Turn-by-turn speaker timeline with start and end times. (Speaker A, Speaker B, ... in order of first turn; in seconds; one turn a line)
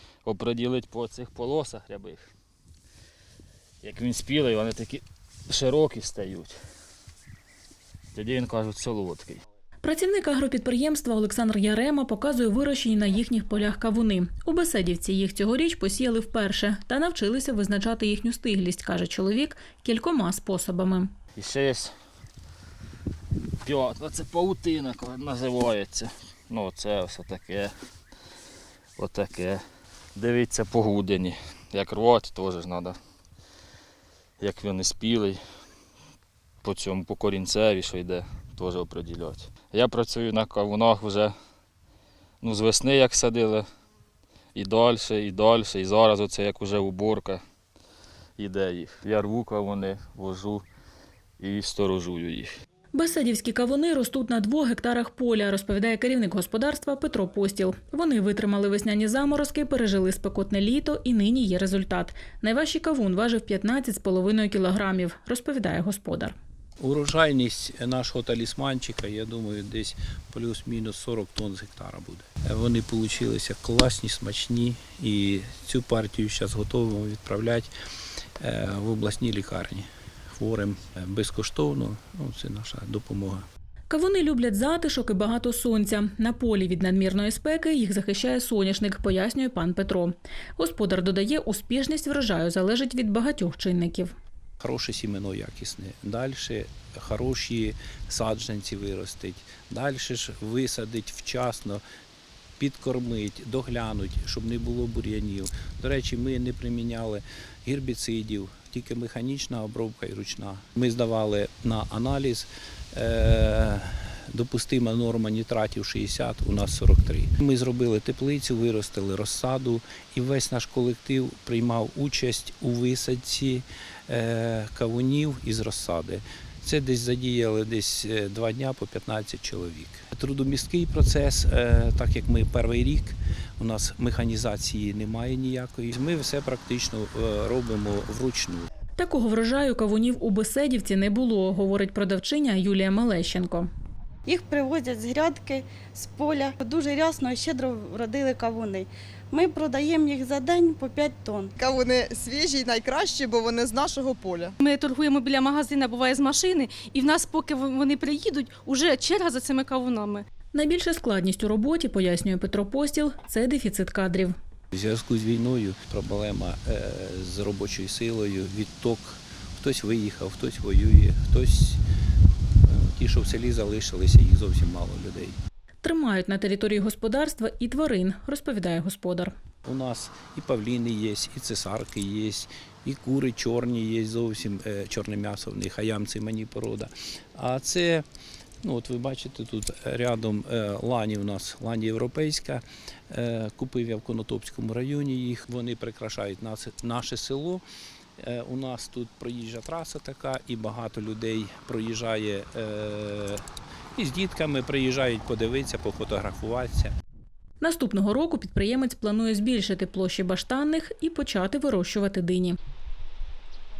Speaker A: 0.2-2.2
Speaker A: 3.8-6.5
Speaker A: 8.1-9.4
Speaker B: 9.8-21.1
Speaker A: 21.4-21.9
Speaker A: 23.6-27.7
Speaker A: 29.0-29.6
Speaker A: 30.1-33.0
Speaker A: 34.4-35.4
Speaker A: 36.6-41.3
Speaker A: 42.4-43.6
Speaker A: 44.5-47.4
Speaker A: 48.4-50.6
Speaker A: 51.4-52.5
Speaker B: 52.9-66.3
Speaker C: 66.8-77.7
Speaker C: 78.4-83.5
Speaker B: 83.9-94.1
Speaker C: 94.6-101.8
Speaker C: 102.6-138.7
Speaker B: 139.0-143.7
Speaker D: 144.2-151.5
Speaker E: 151.6-154.6
Speaker F: 154.6-160.2
Speaker B: 160.5-164.3
Speaker C: 164.7-171.8
Speaker C: 172.6-175.4
Speaker B: 175.8-179.3
Speaker C: 179.6-188.0
Speaker C: 188.6-197.6
Speaker C: 198.2-206.9
Speaker B: 207.6-212.6